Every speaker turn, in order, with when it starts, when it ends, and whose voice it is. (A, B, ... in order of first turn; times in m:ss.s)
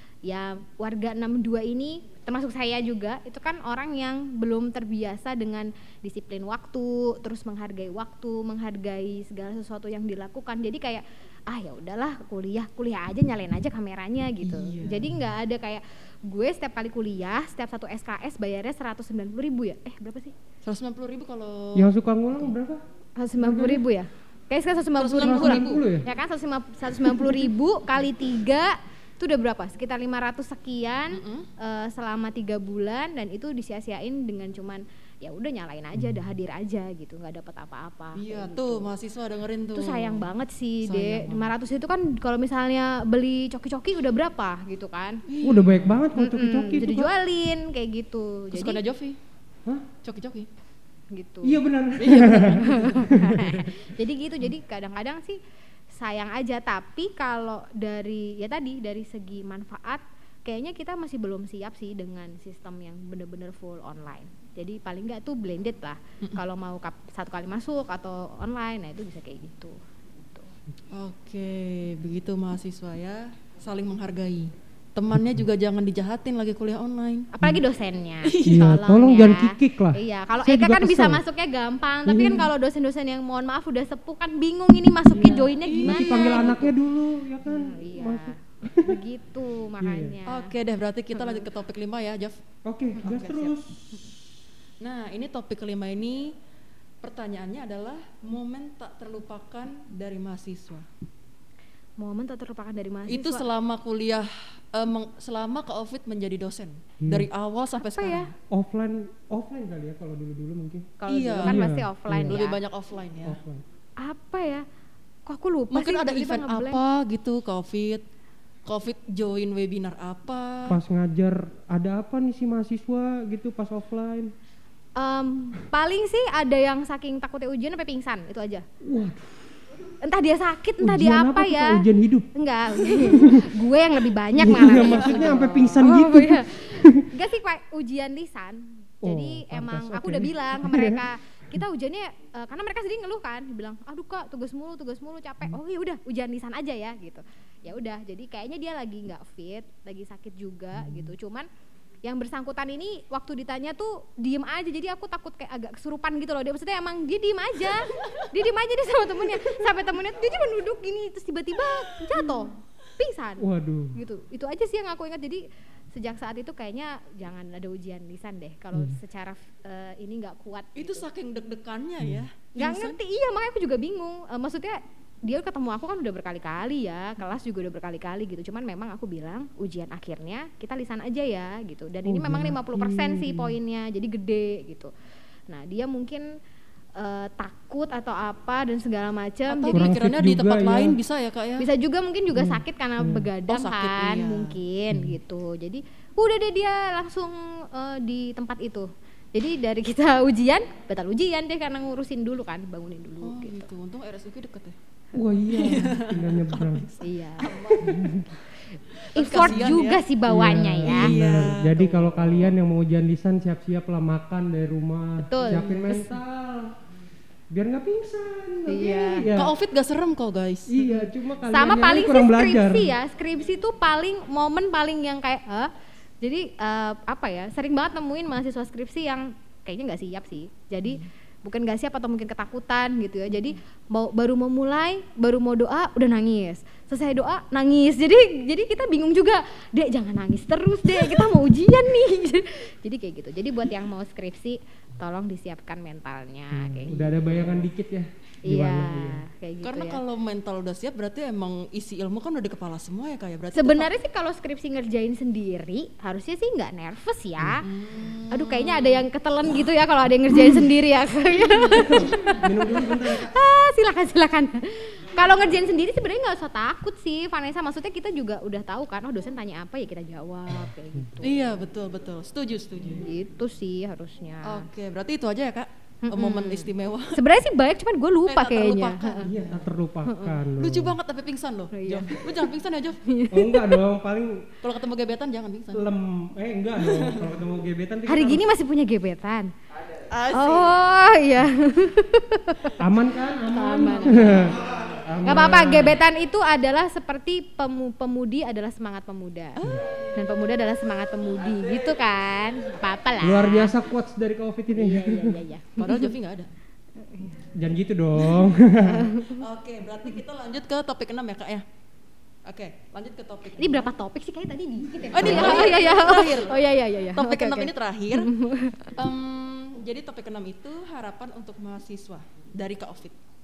0:00.2-0:20.3 A
0:14.4-0:15.1 B
0:20.6-0:21.9 B
0:21.7-0:22.8 C
0:23.2-0:38.9 A
0:23.4-0:23.8 C
0:25.0-0:25.8 B
0:25.2-0:26.1 C
0:31.1-0:31.5 B
0:38.2-0:40.3 B
0:39.7-0:45.2 A
0:40.8-0:41.5 B
0:45.3-0:46.0 B
0:45.4-0:47.1 C
0:46.1-0:48.8 A
0:48.5-0:49.2 B
0:50.0-0:50.5 B
0:51.1-0:55.4 A
0:51.4-0:53.8 C
0:52.0-0:53.2 B
0:55.9-1:10.5 A
1:10.9-1:17.3 B
1:17.3-1:26.7 A
1:18.2-1:18.8 B
1:18.4-1:21.2 C
1:22.0-1:22.5 C
1:25.1-1:29.0 C
1:25.2-1:26.6 B
1:27.4-1:30.5 A
1:29.8-1:30.2 C
1:30.3-1:32.4 B
1:32.6-1:34.3 C
1:33.0-1:33.5 B
1:34.8-1:36.3 B
1:37.0-1:40.9 B
1:42.0-1:43.5 A
1:43.1-1:48.3 B
1:47.0-1:47.3 C
1:47.8-1:48.3 A
1:48.5-1:52.4 C
1:51.0-1:52.6 A
1:51.1-1:51.7 B
1:52.2-1:53.4 B
1:53.2-1:53.6 C
1:54.0-1:54.6 A
1:55.2-1:56.8 A
1:55.7-1:58.0 B
1:58.6-2:00.8 B
2:00.7-2:04.3 C
2:05.0-2:08.6 A
2:08.8-2:09.5 C
2:10.0-2:31.5 A
2:10.8-2:12.3 C
2:12.9-2:13.5 C
2:14.4-2:17.1 C
2:14.8-2:15.2 B
2:19.0-2:21.0 C
2:30.7-2:31.1 C
2:32.0-2:51.0 A
2:37.8-2:38.3 B
2:41.7-2:42.2 B
2:43.4-2:44.0 C
2:48.7-2:49.0 C
2:50.8-2:53.0 B
2:52.6-3:04.9 A
3:02.1-3:03.6 C
3:05.5-3:06.2 A
3:07.0-3:09.9 A
3:09.5-3:11.7 B
3:09.7-3:11.0 C
3:11.6-3:23.7 A
3:12.3-3:13.3 C
3:13.5-3:14.6 B
3:14.9-3:15.2 C
3:23.2-3:24.8 B
3:25.1-3:26.8 C
3:25.5-3:28.1 B
3:27.0-3:27.7 A
3:27.8-3:28.3 C
3:28.9-3:30.0 B
3:29.1-3:31.1 A
3:30.2-3:36.8 C
3:30.8-3:32.5 B
3:35.2-3:36.1 A
3:37.5-3:39.5 C
3:38.7-3:39.3 A
3:39.3-3:40.8 B
3:40.7-3:42.9 C
3:41.4-4:07.3 A
4:06.5-4:09.2 C
4:08.4-4:10.0 A
4:09.6-4:13.9 B
4:13.5-4:17.7 A
4:17.6-4:19.0 B
4:18.3-4:31.6 A
4:21.4-4:22.1 B
4:21.8-4:23.3 C
4:31.2-4:33.1 B
4:33.0-4:34.7 A
4:34.4-4:37.2 B
4:36.0-4:39.3 A
4:38.3-4:39.7 B
4:39.2-4:41.0 C
4:40.0-4:40.3 A
4:40.5-4:43.0 B
4:41.7-4:42.5 A
4:43.0-4:43.8 A
4:43.3-4:44.5 C
4:44.6-4:45.9 B
4:45.7-4:48.4 C
4:46.8-4:47.3 B
4:48.1-4:49.5 A
4:50.1-4:50.7 B
4:50.3-4:52.8 A
4:52.8-4:56.0 C
4:53.5-4:54.6 A
4:55.2-5:03.7 A
5:03.2-5:05.4 C
5:04.7-5:06.0 A
5:05.8-5:06.5 B
5:07.4-5:09.1 C
5:08.8-5:09.4 A
5:09.2-5:11.6 B
5:12.4-5:13.9 B
5:13.6-5:19.0 A
5:15.0-5:18.3 B
5:18.9-5:23.1 B